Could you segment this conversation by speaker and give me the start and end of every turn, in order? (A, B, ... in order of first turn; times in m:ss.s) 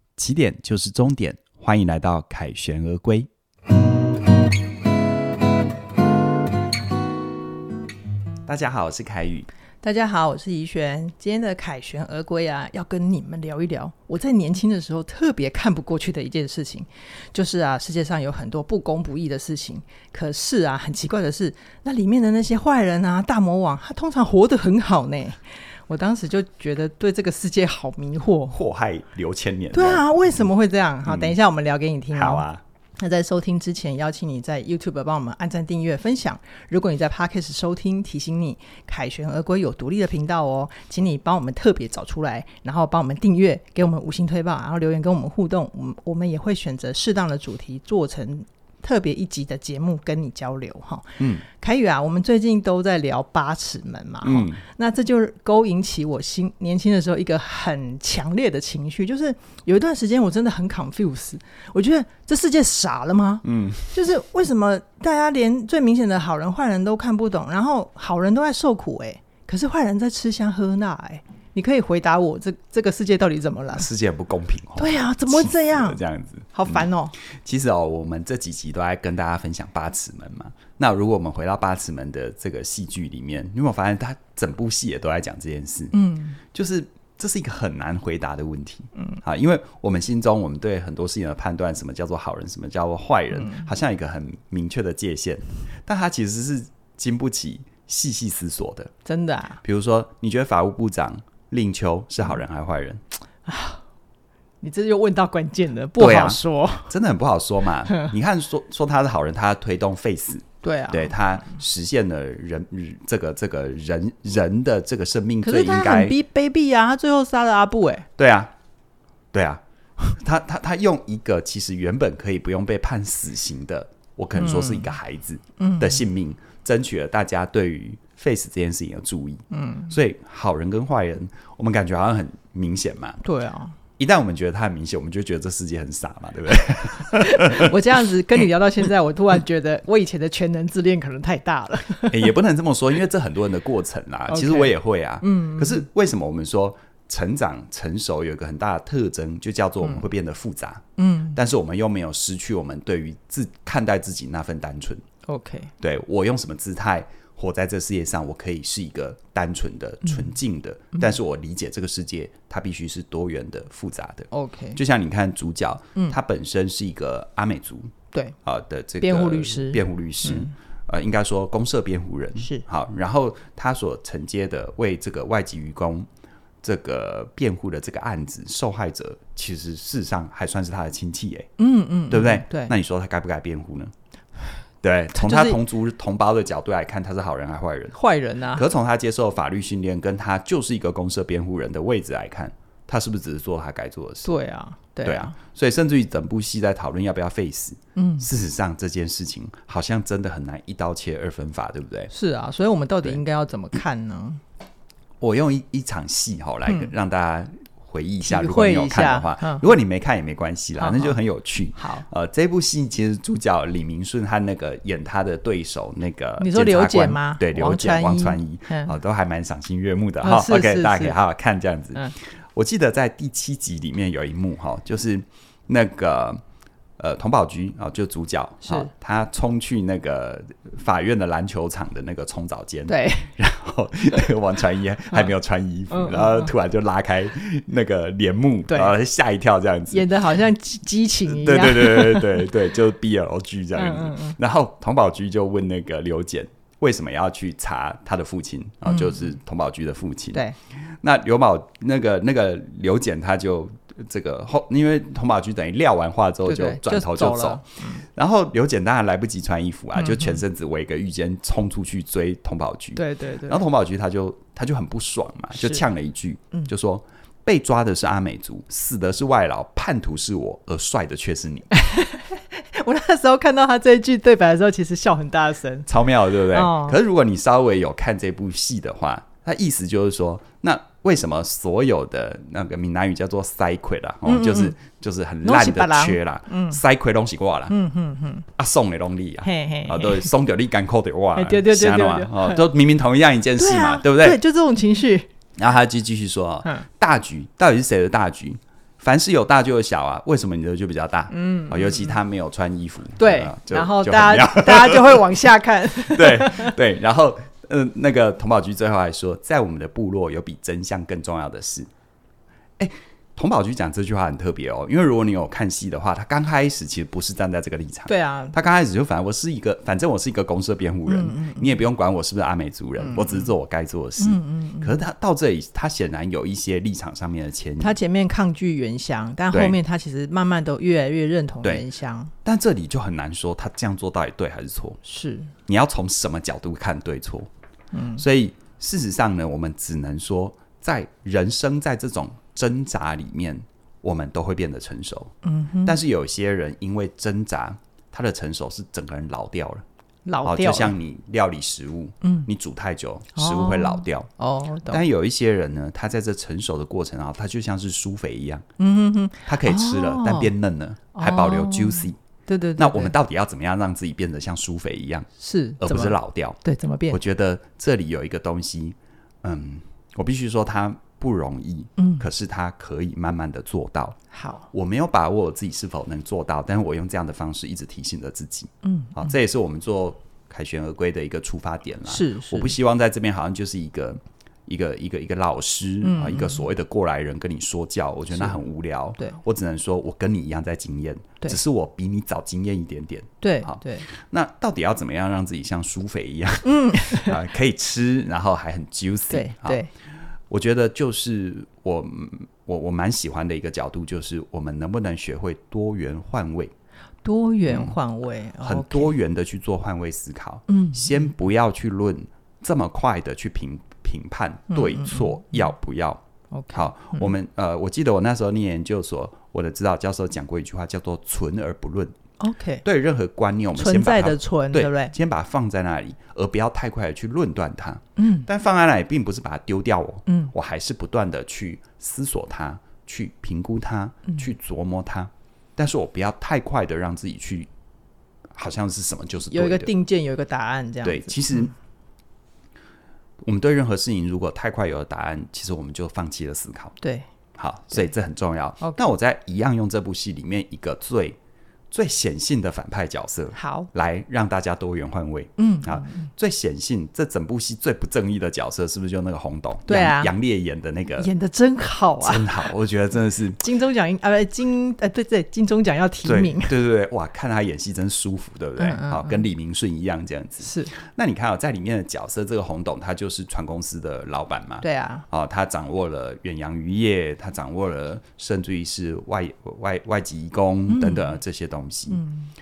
0:00.2-0:03.3 A
0:08.4-0:09.5 A
0:09.8-0:28.6 B
0:28.5-0:30.1 A
0:29.7-0:32.4 B
0:31.0-0:31.4 A
0:32.1-0:32.6 A
0:33.0-1:13.9 B
0:54.2-0:54.6 A
1:03.4-1:03.9 A
1:13.7-1:38.9 A
1:14.8-1:16.0 B
1:16.5-1:17.2 B
1:25.9-1:26.4 B
1:33.3-1:33.7 B
1:39.0-1:39.6 B
1:39.6-1:43.0 A
1:43.4-1:43.8 B
1:44.6-1:46.9 B
1:46.0-1:56.1 A
1:50.6-1:51.2 B
1:55.4-1:58.1 B
1:58.2-1:58.5 A
1:59.3-2:13.2 A
2:04.4-2:04.9 B
2:05.6-2:06.0 B
2:09.5-2:09.9 B
2:13.2-2:13.8 B
2:14.0-2:17.7 A
2:17.1-2:22.3 B
2:22.1-2:35.0 A
2:24.3-2:25.8 B
2:31.0-2:31.4 B
2:35.2-2:35.7 B
2:35.8-2:47.9 A
2:44.3-2:44.8 B
2:48.4-2:56.1 A
2:49.0-2:50.5 B
2:56.6-3:01.5 A
3:01.6-3:02.7 B
3:02.1-3:03.9 A
3:04.8-3:08.0 A
3:05.1-3:05.6 B
3:07.9-3:08.6 B
3:08.5-3:14.3 A
3:14.2-3:15.3 B
3:15.0-3:22.1 A
3:18.0-3:18.3 B
3:22.1-3:24.4 B
3:25.2-3:46.4 A
3:26.7-3:26.9 B
3:28.2-3:29.7 B
3:30.8-3:31.2 B
3:31.8-3:32.0 B
3:36.4-3:38.9 B
3:40.2-3:41.2 B
3:47.0-4:00.1 A
3:48.6-3:48.9 B
3:52.9-3:53.3 B
3:55.9-3:56.5 B
3:59.9-4:02.5 B
4:01.3-4:31.7 A
4:03.8-4:04.4 B
4:08.9-4:09.2 B
4:16.4-4:18.0 B
4:20.0-4:20.4 B
4:22.9-4:23.6 B
4:25.5-4:25.8 B
4:31.7-4:37.0 B
4:35.9-4:47.7 A
4:44.2-4:44.8 B
4:45.4-4:46.8 B
4:47.7-4:48.4 B
4:48.5-4:54.4 A
4:49.4-4:50.3 B
4:51.3-4:52.6 B
4:53.6-4:55.3 B
4:55.6-5:05.3 A
5:01.3-5:02.2 B
5:03.2-5:06.8 B
5:06.1-5:11.9 A
5:12.8-5:28.0 A
5:18.1-5:18.6 B
5:21.1-5:21.8 B
5:23.0-5:23.5 B
5:24.2-5:25.0 B
5:27.8-5:32.3 B
5:29.5-5:29.8 A
5:32.4-5:35.0 A
5:35.0-5:35.5 B
5:35.7-5:37.5 A
5:37.9-5:38.2 B
5:38.2-5:45.3 A
5:45.4-5:46.0 B
5:45.8-5:49.8 A
5:50.2-5:50.9 B
5:50.4-5:54.3 A
5:52.2-5:52.5 B
5:53.4-5:55.0 B
5:54.9-5:58.6 A
5:58.8-6:00.5 B
5:59.5-6:02.2 A
6:01.1-6:03.1 B
6:02.8-6:05.3 A
6:05.4-6:07.2 B
6:05.8-6:06.6 A
6:07.1-6:14.2 A
6:12.0-6:12.2 B
6:14.3-6:14.7 B
6:14.7-6:39.8 A
6:18.8-6:19.2 B
6:22.1-6:22.7 B
6:26.0-6:26.6 B
6:33.4-6:34.1 B
6:36.6-6:37.4 B
6:39.3-6:39.9 B
6:40.5-6:46.7 A
6:47.2-6:49.1 B
6:47.7-6:48.0 A
6:48.6-7:02.1 A
6:50.7-6:51.2 B
6:54.7-6:55.7 B
6:56.5-6:57.3 B
7:02.4-7:02.8 B
7:02.8-7:17.7 A
7:03.7-7:05.1 B
7:08.2-7:08.5 B
7:10.3-7:10.5 B
7:18.5-7:19.9 A
7:19.5-7:21.7 B
7:21.0-7:21.7 A
7:23.4-7:26.9 A
7:27.0-7:27.3 B
7:27.6-7:31.4 A
7:31.9-7:41.3 A
7:33.5-7:33.9 B
7:35.6-7:36.3 B
7:39.9-7:40.3 B
7:41.2-7:42.7 B
7:42.2-7:43.6 A
7:43.6-7:46.8 B
7:46.2-8:02.2 A
7:48.8-7:49.4 B
7:50.6-7:50.9 B
7:54.8-7:55.2 B
8:00.9-8:01.4 B
8:02.1-8:02.5 B